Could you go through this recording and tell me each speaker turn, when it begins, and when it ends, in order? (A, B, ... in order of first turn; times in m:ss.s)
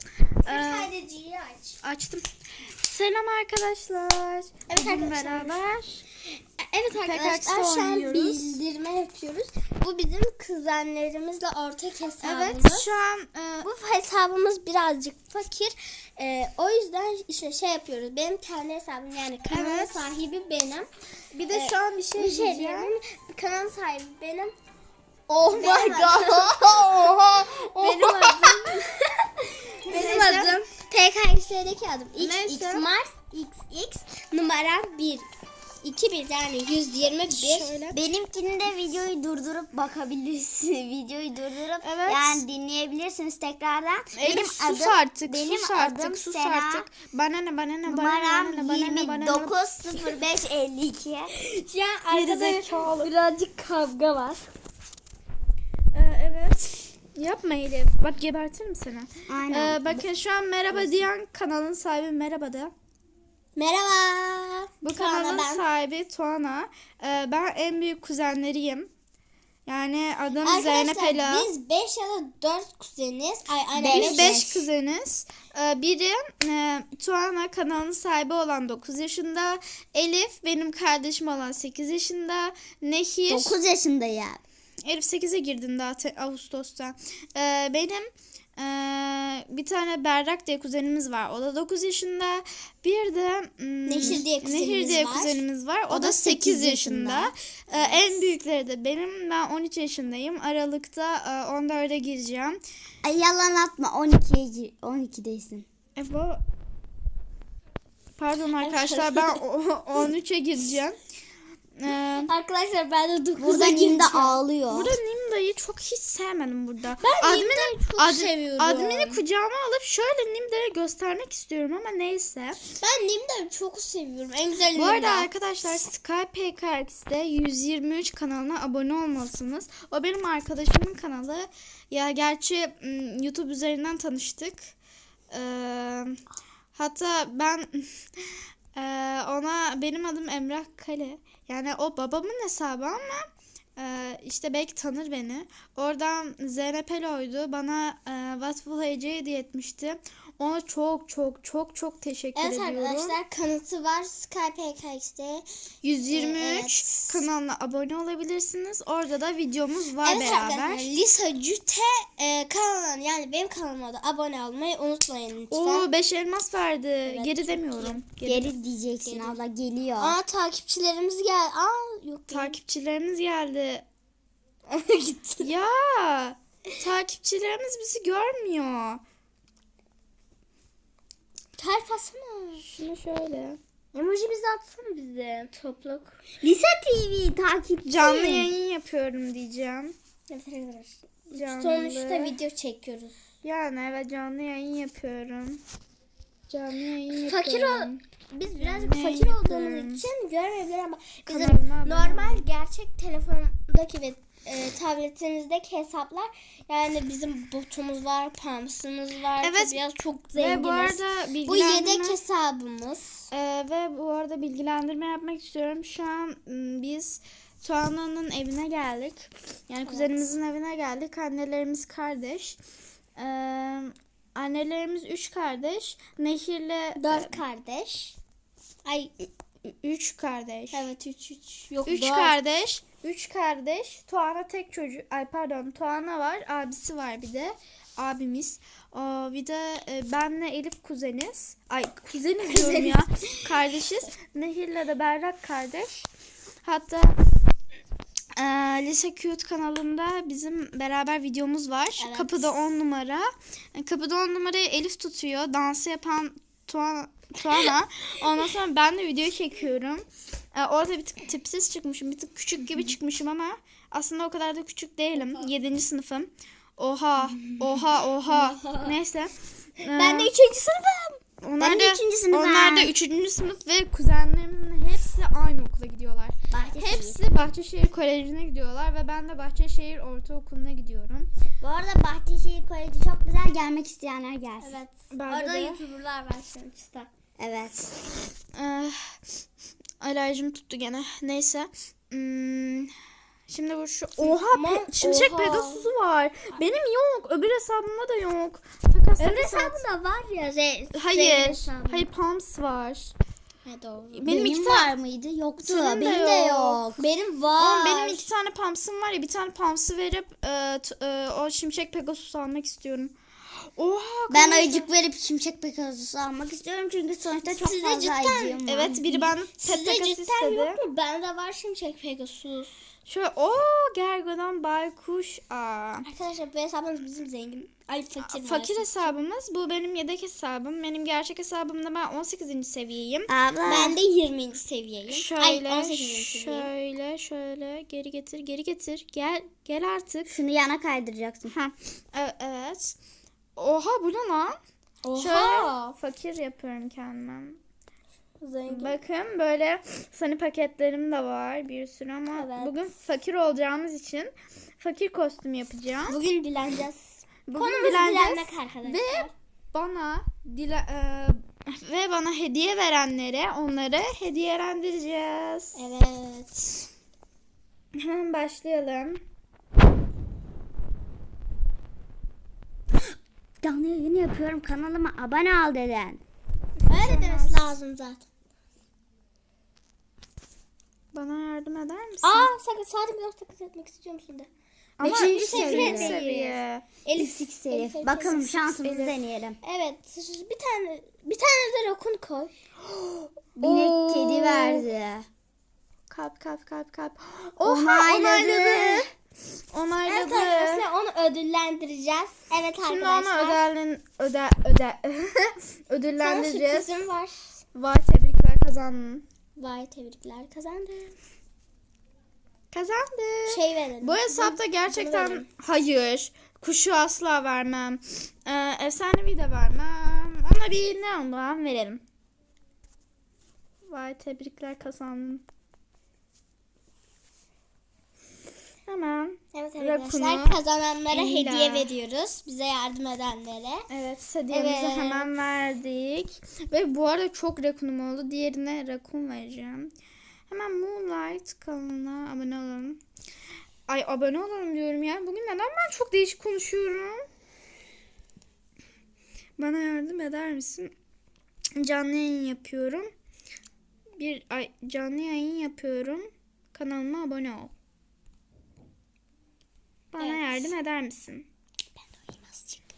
0:00.4-0:00.9 A
0:00.4-0:01.8 B
0:01.8-0:06.0 A
0:04.7-0:05.6 B
0:06.6-0:13.0 B
0:06.9-0:08.5 A
0:12.2-0:13.7 A
0:13.6-0:20.9 B
0:19.5-0:20.1 A
0:21.3-0:22.9 A
0:21.5-0:24.5 B
0:25.3-0:28.8 A
0:25.5-0:35.3 B
0:29.9-0:30.6 A
0:32.2-0:32.9 A
0:35.8-0:38.0 B
0:37.4-0:37.8 A
0:37.9-0:46.9 C
0:41.8-0:42.4 A
0:44.1-0:49.6 A
0:47.9-0:51.3 C
0:51.4-0:54.5 B
0:52.1-0:53.1 A
0:55.9-1:02.7 A
0:59.3-1:00.0 C
1:00.7-1:01.0 B
1:03.6-1:05.7 B
1:04.8-1:08.9 A
1:09.7-1:11.5 A
1:10.4-1:14.5 B
1:13.8-1:14.6 C
1:13.9-1:23.6 A
1:23.3-1:24.4 C
1:24.9-1:42.6 A
1:33.8-1:37.2 B
1:37.0-1:37.3 C
1:37.7-1:38.2 B
1:43.0-1:45.7 C
1:46.0-1:46.4 A
1:48.2-1:51.0 A
1:48.6-1:49.4 B
1:51.8-1:52.3 A
1:51.9-1:54.4 B
1:53.4-1:54.9 C
1:54.7-2:02.6 A
1:57.0-1:59.2 B
2:02.8-2:05.3 B
2:04.7-2:14.7 A
2:15.3-2:16.2 A
2:16.8-2:17.9 A
2:18.8-2:33.2 A
2:32.4-2:35.4 B
2:35.8-2:40.9 A
2:36.1-2:37.3 B
2:40.0-2:45.9 B
2:45.5-2:48.5 A
2:47.1-2:48.0 B
2:48.2-2:50.2 C
2:49.0-2:49.4 B
2:50.0-2:52.6 B
2:52.3-2:53.8 A
2:54.7-2:55.5 B
2:55.4-2:59.0 A
3:01.6-3:02.7 B
3:02.6-3:03.6 A
3:03.9-3:06.2 B
3:06.4-3:08.5 C
3:07.9-3:09.9 A
3:10.3-3:13.2 B
3:11.4-3:12.4 A
3:13.4-3:15.6 A
3:16.5-3:18.0 A
3:17.1-3:33.3 B
3:18.6-3:20.0 A
3:21.3-3:22.5 A
3:29.4-3:29.8 A
3:30.3-3:32.2 A
3:33.3-3:42.6 A
3:39.9-3:40.1 B
3:43.2-3:47.4 A
3:47.0-3:48.2 B
3:48.8-3:49.3 B
3:49.8-3:50.9 A
3:50.7-3:52.4 B
3:51.9-4:06.1 A
4:02.5-4:03.2 B
4:06.6-4:07.2 A
4:08.4-4:30.3 A
4:12.0-4:12.6 B
4:25.2-4:25.5 B
4:27.5-4:29.0 B
4:29.9-4:31.2 B
4:31.4-4:41.3 A
4:31.6-4:32.9 C
4:36.5-4:37.2 C
4:41.6-4:44.8 C
4:44.6-4:47.1 B
4:45.1-4:45.8 A
4:47.4-4:47.9 C
4:48.6-4:49.0 A
4:50.0-4:52.9 A
4:53.5-4:59.8 A
4:54.2-4:55.9 B
4:59.2-5:02.1 B
5:00.9-5:03.1 A
5:03.6-5:04.3 B
5:04.1-5:04.9 A
5:04.3-5:07.0 C
5:05.6-5:06.8 A
5:07.0-5:08.3 B
5:07.6-5:14.9 A
5:14.3-5:19.0 C
5:17.4-5:22.8 B
5:18.6-5:20.8 A
5:23.1-5:26.1 A
5:26.0-5:29.1 B
5:28.2-5:33.3 A
5:33.3-5:34.0 C
5:33.6-5:36.7 B
5:35.1-5:40.4 A
5:40.3-5:41.5 C
5:41.5-5:43.0 A
5:43.6-5:44.6 A
5:45.0-5:46.0 B
5:45.2-5:47.6 A
5:48.4-5:49.0 B
5:48.7-5:56.2 A
5:52.3-5:52.8 B
5:56.1-5:59.3 B
5:57.5-6:05.8 A
6:05.8-6:06.9 B
6:08.0-6:09.2 A
6:13.6-6:16.2 C
6:16.8-6:17.8 A
6:16.9-6:18.2 B
6:21.1-6:22.5 A
6:22.2-6:24.5 B
6:25.0-6:26.9 A
6:25.0-6:28.5 B
6:25.0-6:26.2 C
6:27.2-6:29.6 C
6:28.2-6:29.2 A
6:29.6-6:32.5 B
6:32.8-6:34.9 A
6:33.6-6:35.3 C
6:36.1-6:39.0 A
6:37.6-6:39.1 C
6:38.7-6:39.0 B
6:39.7-6:40.8 A
6:40.0-6:43.6 B
6:42.8-6:47.0 A
6:46.2-6:47.6 B
6:47.7-6:49.2 A
6:49.6-6:51.2 B
6:52.7-7:02.0 A
6:53.5-6:55.5 B
7:03.9-7:05.4 A
7:08.9-7:10.6 A
7:09.5-7:13.9 B
7:11.1-7:11.9 A
7:13.9-7:19.9 A
7:14.5-7:15.3 B
7:20.5-7:23.0 A
7:23.9-7:27.2 A
7:29.6-7:30.9 A
7:31.8-7:33.1 A
7:34.2-7:37.7 A
7:40.1-7:41.5 A
7:40.2-7:40.8 B
7:42.0-7:42.8 B